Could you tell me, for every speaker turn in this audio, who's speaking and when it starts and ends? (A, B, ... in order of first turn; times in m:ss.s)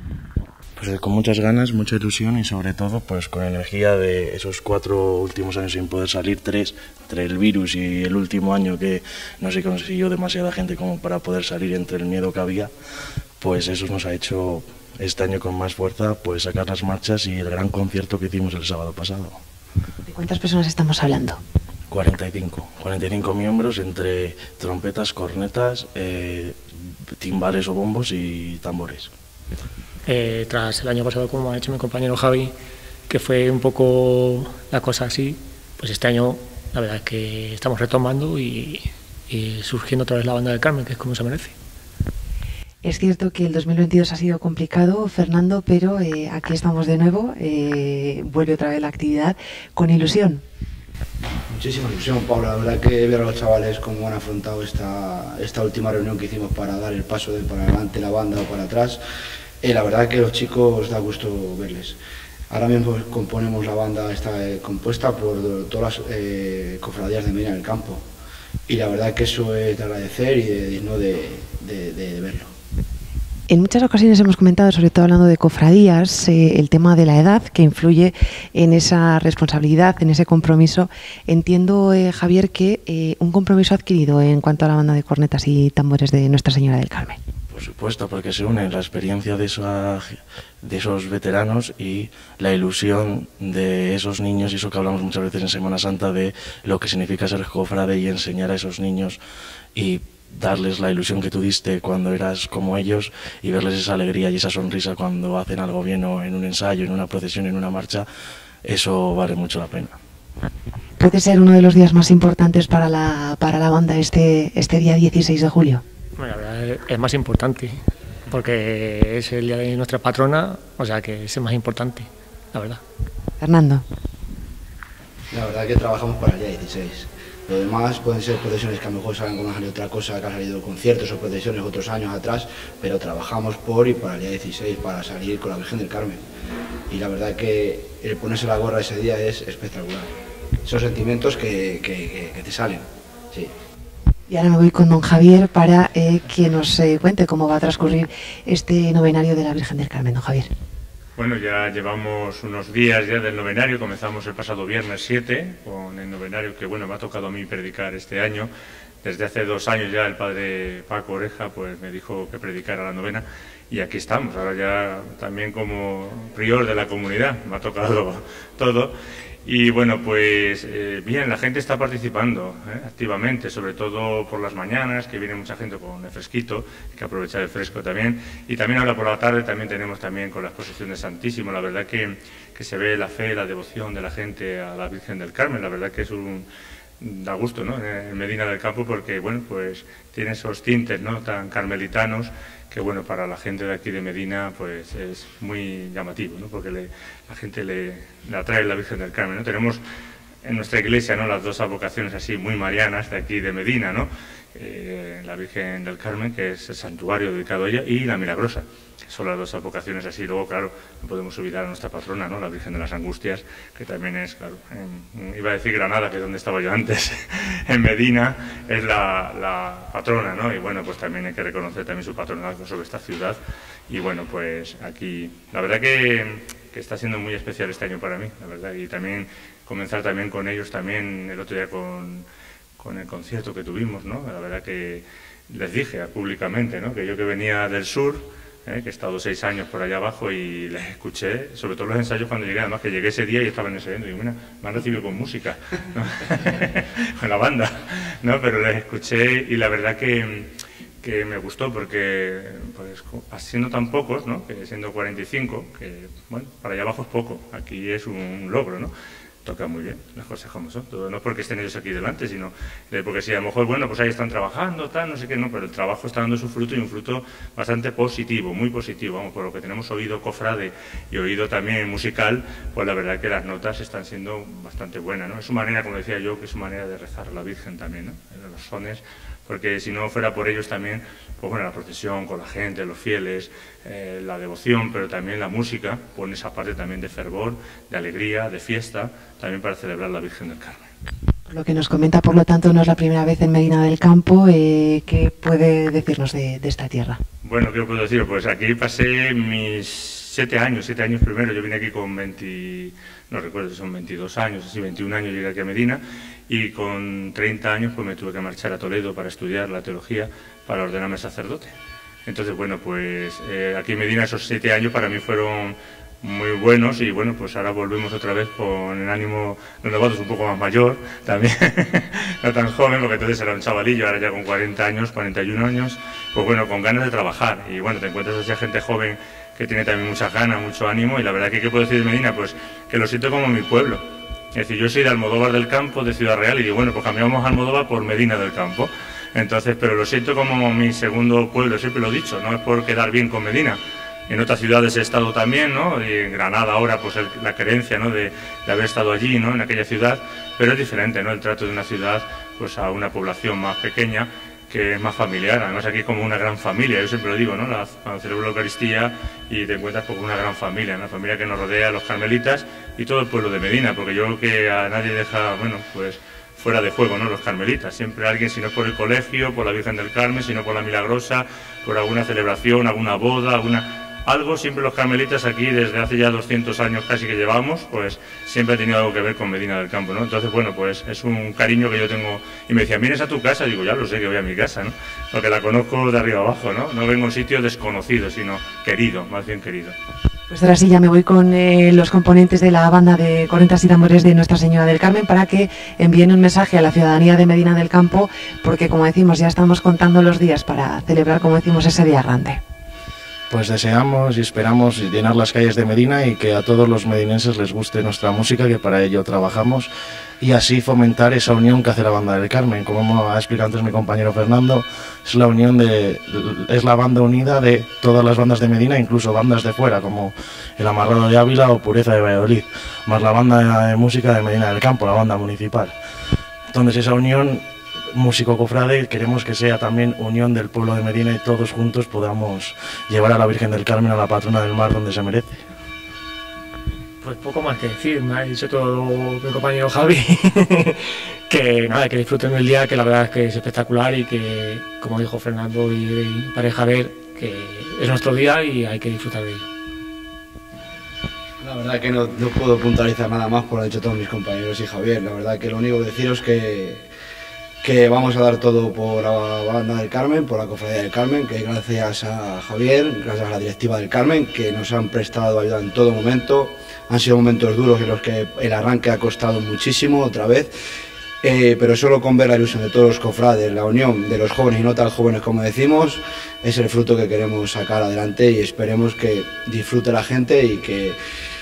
0:00.8-0:12.7 A
0:13.4-0:19.4 A
0:20.1-0:21.4 B
0:21.9-0:26.6 A
0:27.2-0:29.1 A
0:30.1-0:32.5 C
0:33.1-0:41.6 C
0:42.8-0:50.4 B
0:51.5-0:59.0 D
0:59.6-1:02.0 D
1:02.5-1:08.0 D
1:08.7-1:12.5 D
1:13.5-1:27.2 B
1:27.5-1:39.2 A
1:39.8-1:48.1 A
1:48.6-1:50.0 A
1:51.0-1:55.8 B
1:56.2-2:02.8 C
2:03.4-2:03.8 B
2:05.3-2:16.2 D
2:16.9-2:20.1 D
2:20.6-2:23.5 D
2:24.3-2:30.5 B
2:31.2-2:38.5 E
2:39.0-3:06.5 E
3:07.0-3:19.8 E
3:20.4-3:52.3 E
3:52.8-4:18.9 E
4:19.4-4:50.9 E
4:51.5-4:57.2 B
4:57.4-5:11.7 E
5:12.2-6:30.0 E
6:30.5-6:42.6 B
6:43.5-6:49.9 A
6:50.4-7:06.0 A
7:06.7-7:15.6 A
7:17.2-7:29.7 C
7:31.6-7:37.1 D
7:37.8-7:50.8 D
7:51.4-8:01.2 D